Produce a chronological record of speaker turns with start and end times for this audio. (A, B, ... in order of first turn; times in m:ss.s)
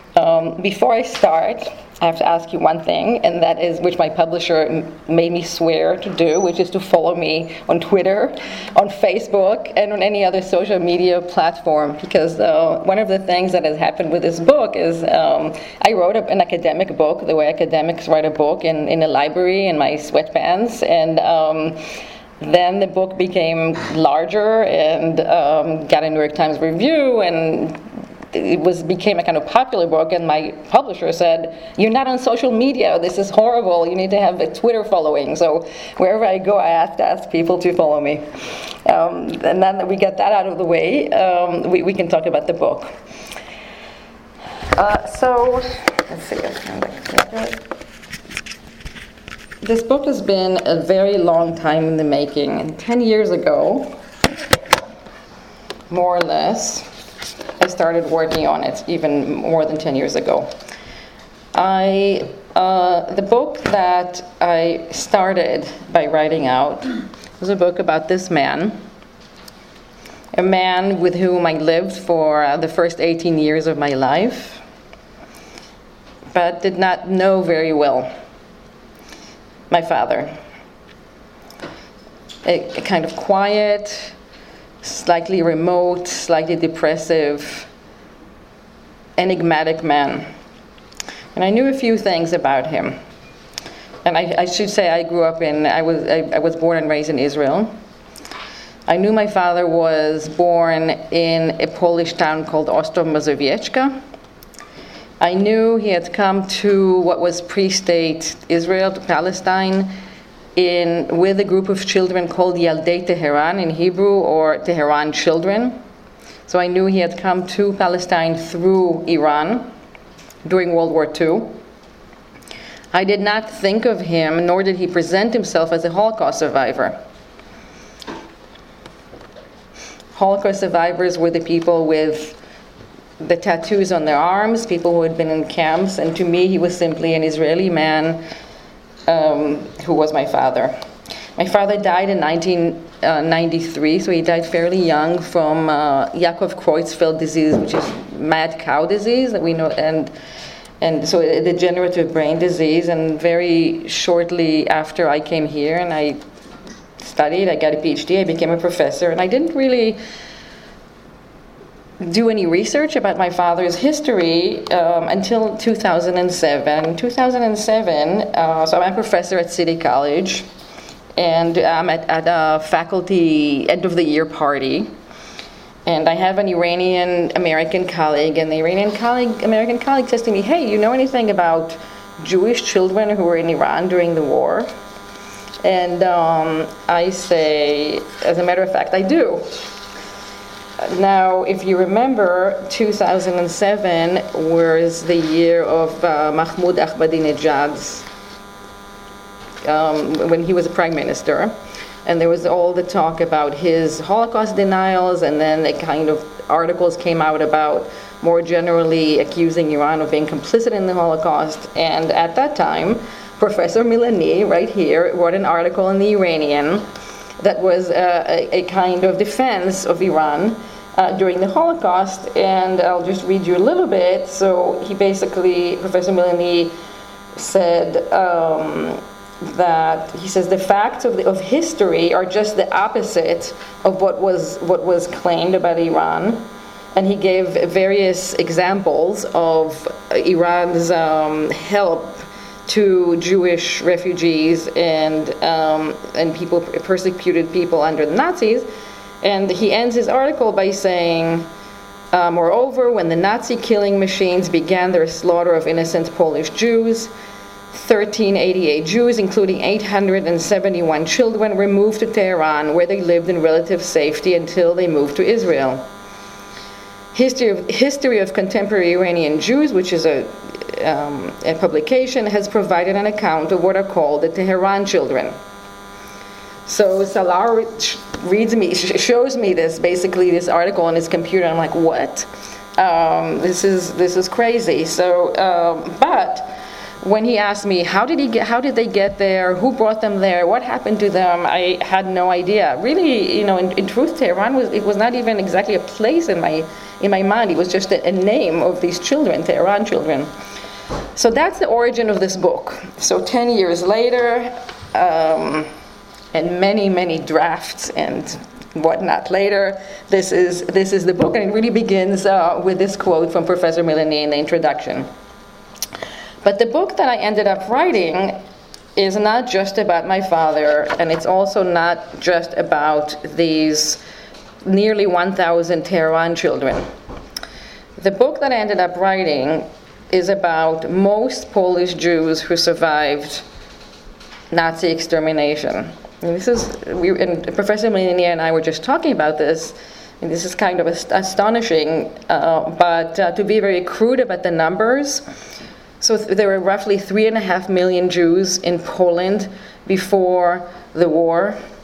0:00.2-0:21.8 A
0:22.4-0:27.8 A
0:28.3-0:38.2 A
0:38.8-0:42.9 A
0:44.8-0:47.6 A
0:49.6-0:54.0 A
0:55.9-0:56.9 A
0:57.6-1:00.5 A
1:01.5-1:08.8 A
1:10.3-1:14.6 A
1:16.3-1:18.1 A
1:19.7-1:20.4 A
1:22.4-1:24.1 A
1:24.8-1:27.7 A
1:29.2-1:30.3 A
1:31.4-1:33.0 A
1:34.0-1:37.7 A
1:38.9-1:44.0 A
1:45.2-1:49.9 A
1:50.6-1:55.8 A
1:56.5-1:59.7 A
2:00.4-2:01.6 A
2:02.9-2:07.0 A
2:10.2-2:12.4 A
2:13.2-2:18.2 A
2:19.1-2:20.7 A
2:21.4-2:30.1 A
2:30.8-2:36.2 A
2:37.0-2:40.0 A
2:42.0-2:50.4 A
2:51.2-2:54.9 A
2:55.9-3:04.7 A
3:05.6-3:09.5 A
3:10.8-3:18.1 A
3:19.6-3:36.8 A
3:37.4-3:46.8 A
3:47.4-4:08.7 A
4:09.2-4:11.5 A
4:12.1-4:17.1 A
4:17.7-4:25.9 A
4:27.1-4:35.4 A
4:36.7-5:00.3 A
5:01.2-5:05.7 A
5:06.3-5:15.1 A
5:16.4-5:18.4 A
5:19.0-5:24.0 A
5:24.6-5:26.9 A
5:28.0-5:33.4 A
5:34.5-5:45.2 A
5:46.0-5:51.6 A